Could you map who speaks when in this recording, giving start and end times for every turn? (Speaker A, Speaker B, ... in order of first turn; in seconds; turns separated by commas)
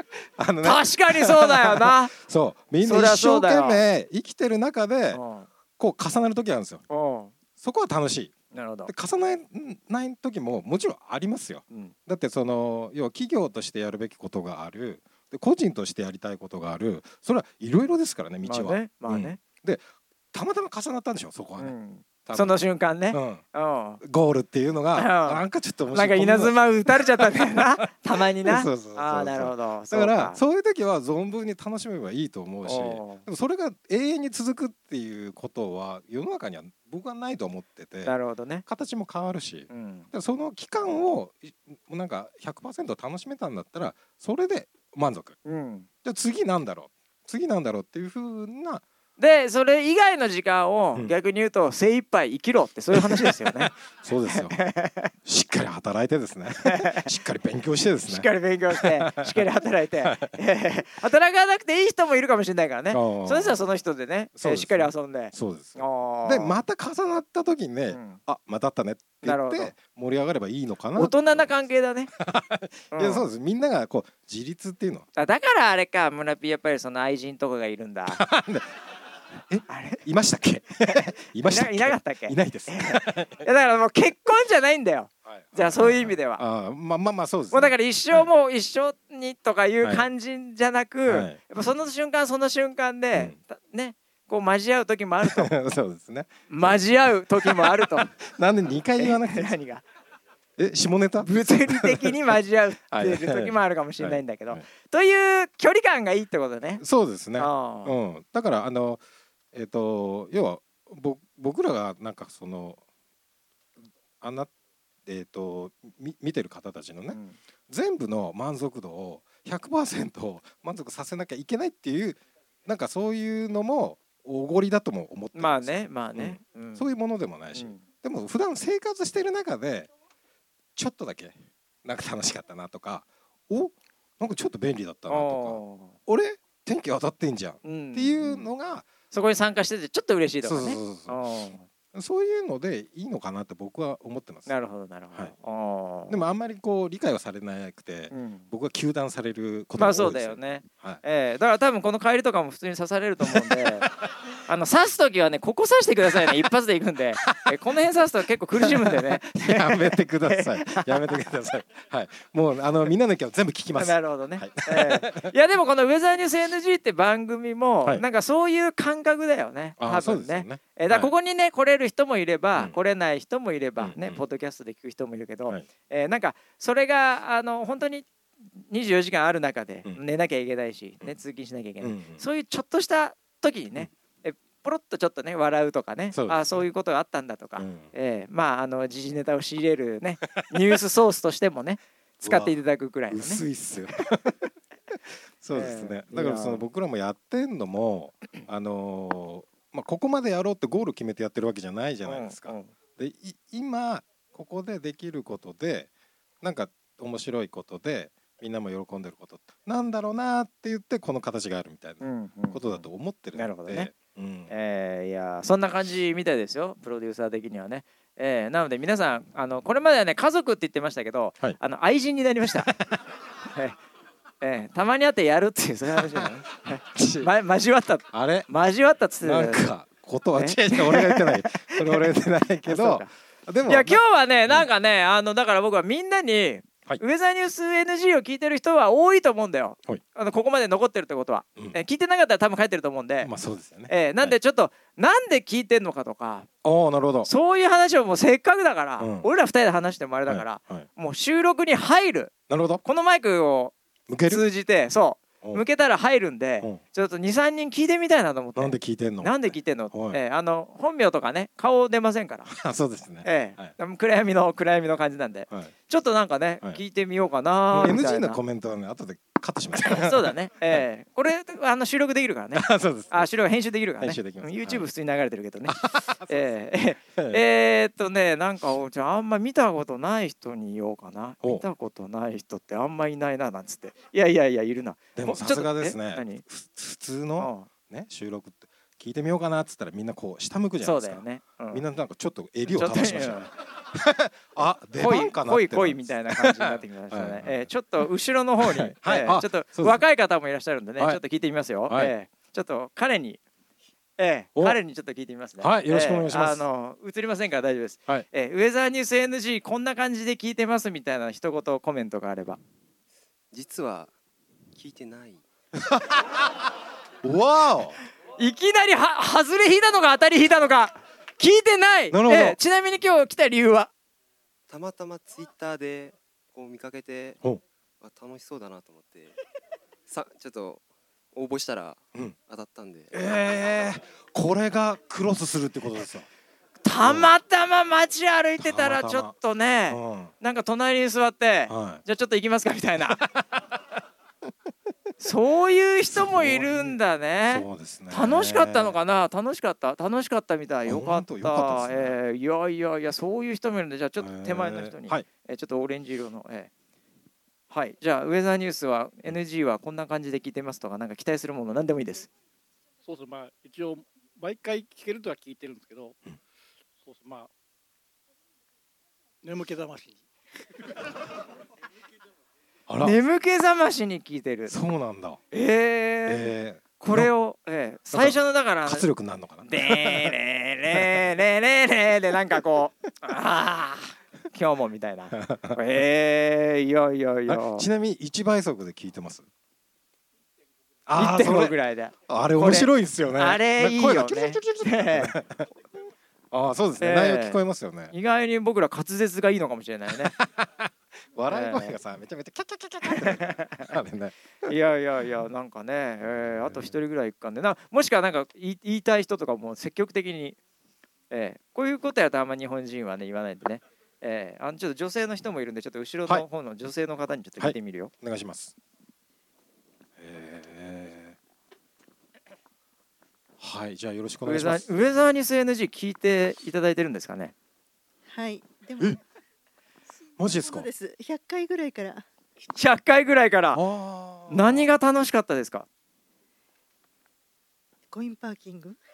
Speaker A: 0.4-5.2, Speaker B: 0.6-2.1, Speaker B: 2.8-3.8, Speaker B: 5.1-5.5, Speaker A: 5.8-6.8, Speaker B: 6.9-7.3, Speaker A: 7.6-8.3, Speaker B: 8.5-8.9, Speaker A: 8.8-21.7, Speaker B: 18.4-19.4, Speaker B: 21.6-24.0, Speaker A: 22.2-23.4, Speaker A: 24.0-45.4, Speaker B: 24.9-25.4, Speaker B: 25.9-30.4, Speaker B: 32.6-33.2, Speaker B: 38.0-38.6, Speaker B: 39.7-40.1, Speaker B: 45.4-45.9, Speaker A: 46.0-48.8, Speaker B: 49.2-53.7, Speaker A: 52.9-54.6, Speaker B: 54.3-55.1, Speaker A: 55.2-59.5, Speaker B: 56.6-57.1, Speaker B: 58.1-66.6, Speaker A: 60.0-60.3, Speaker A: 62.9-63.6, Speaker A: 64.4-71.5, Speaker B: 67.9-68.2, Speaker B: 69.2-69.7, Speaker B: 70.9-72.1, Speaker A: 72.1-75.1, Speaker B: 72.9-73.2, Speaker B: 75.2-78.2, Speaker A: 78.1-78.7, Speaker A: 79.5-83.5, Speaker B: 79.7-80.0, Speaker B: 80.9-86.4, Speaker A: 85.3-88.3, Speaker B: 87.5-95.5, Speaker A: 89.8-90.1, Speaker A: 91.1-91.4, Speaker A: 95.2-96.9, Speaker B: 96.5-98.1, Speaker A: 97.4-99.5, Speaker B: 99.0-99.8, Speaker A: 100.6-102.1, Speaker B: 101.2-106.8, Speaker A: 102.9-104.6, Speaker A: 106.8-109.0, Speaker B: 107.4-108.0, Speaker A: 109.5-112.8, Speaker A: 114.2-114.5, Speaker A: 115.0-129.9, Speaker B: 117.1-117.4, Speaker B: 125.3-126.8, Speaker B: 127.5-127.8, Speaker A: 130.8-138.9, Speaker B: 135.1-136.0, Speaker B: 137.6-138.5, Speaker B: 139.1-141.7, Speaker A: 140.4-141.2, Speaker A: 141.9-144.5, Speaker B: 144.5-146.2, Speaker A: 146.1-151.0, Speaker B: 148.1-148.5, Speaker B: 149.8-153.9, Speaker A: 153.2-153.9, Speaker B: 154.4-161.2, Speaker A: 157.2-157.5, Speaker A: 158.6-165.3, Speaker B: 163.8-178.1, Speaker A: 169.8-171.1, Speaker A: 173.8-174.2, Speaker B: 178.6-193.4, Speaker A: 181.8-182.2, Speaker A: 186.1-186.6, Speaker A: 187.6-187.9, Speaker A: 192.2-192.5, Speaker A: 193.1-194.3, Speaker A: 195.4-205.9, Speaker B: 195.5-196.6, Speaker B: 202.1-202.7, Speaker A: 206.4-214.5, Speaker B: 212.0-212.8, Speaker B: 213.3-213.9, Speaker B: 214.5-222.7, Speaker A: 222.7-223.0, Speaker B: 224.4-229.7, Speaker A: 225.9-226.3, Speaker A: 226.8-227.3, Speaker A: 228.1-228.5, Speaker A: 229.2-234.7, Speaker B: 230.4-232.1, Speaker B: 232.6-233.1, Speaker B: 233.7-243.3, Speaker A: 243.2-244.3, Speaker B: 243.9-246.5, Speaker A: 246.6-247.3, Speaker B: 247.2-252.3, Speaker A: 249.0-249.3, Speaker A: 250.3-250.9, Speaker A: 252.5-252.8, Speaker B: 252.8-253.7, Speaker A: 254.1-254.4, Speaker B: 254.3-262.5, Speaker A: 258.6-260.2, Speaker A: 262.5-263.7, Speaker B: 263.2-268.4, Speaker A: 267.7-270.8, Speaker B: 269.8-286.4, Speaker A: 272.5-273.3, Speaker A: 274.0-274.9, Speaker A: 275.7-276.5, Speaker A: 277.1-277.4, Speaker A: 285.1-297.7, Speaker B: 287.4-287.7, Speaker B: 290.8-291.8, Speaker B: 292.7-293.5, Speaker B: 295.0-303.4, Speaker A: 298.6-300.0, Speaker A: 301.9-302.1, Speaker B: 304.2-312.6, Speaker A: 305.6-306.6, Speaker C: 313.5-314.1, Speaker C: 314.7-315.4, Speaker A: 315.8-316.6, Speaker A: 317.2-318.0, Speaker B: 318.4-323.9, Speaker A: 322.1-322.6, Speaker C: 324.7-327.4, Speaker C: 328.0-329.4, Speaker C: 330.1-333.1, Speaker A: 333.1-336.3, Speaker B: 336.8-343.2, Speaker A: 337.0-337.3, Speaker A: 338.6-339.3, Speaker A: 339.9-340.3, Speaker A: 341.7-342.0, Speaker B: 345.2-356.7, Speaker A: 346.1-348.9, Speaker A: 350.9-352.2, Speaker A: 354.2-355.2, Speaker B: 357.7-362.3, Speaker D: 363.0-366.2, Speaker D: 367.0-367.5, Speaker D: 369.4-370.2, Speaker A: 372.9-373.2, Speaker B: 373.0-374.7, Speaker A: 374.7-375.4, Speaker B: 375.5-379.1, Speaker A: 376.2-377.3, Speaker A: 378.1-380.4, Speaker B: 379.7-387.9, Speaker A: 380.9-381.2, Speaker A: 385.4-385.8, Speaker A: 387.5-389.5, Speaker A: 391.1-391.7, Speaker B: 391.1-395.4, Speaker A: 392.3-395.7, Speaker A: 396.5-398.1, Speaker B: 397.0-397.6, Speaker B: 398.1-400.3, Speaker A: 400.1-404.7, Speaker B: 401.5-401.9, Speaker B: 403.0-403.9, Speaker B: 404.6-410.6, Speaker A: 406.5-406.9, Speaker B: 411.3-418.1, Speaker A: 417.6-418.7, Speaker A: 420.2-421.4, Speaker A: 423.6-425.1, Speaker B: 424.4-427.5, Speaker E: 428.3-429.2, Speaker A: 430.4-430.9, Speaker E: 430.4-432.2, Speaker B: 432.7-433.8, Speaker A: 433.7-434.9, Speaker B: 434.5-435.9, Speaker E: 438.1-439.0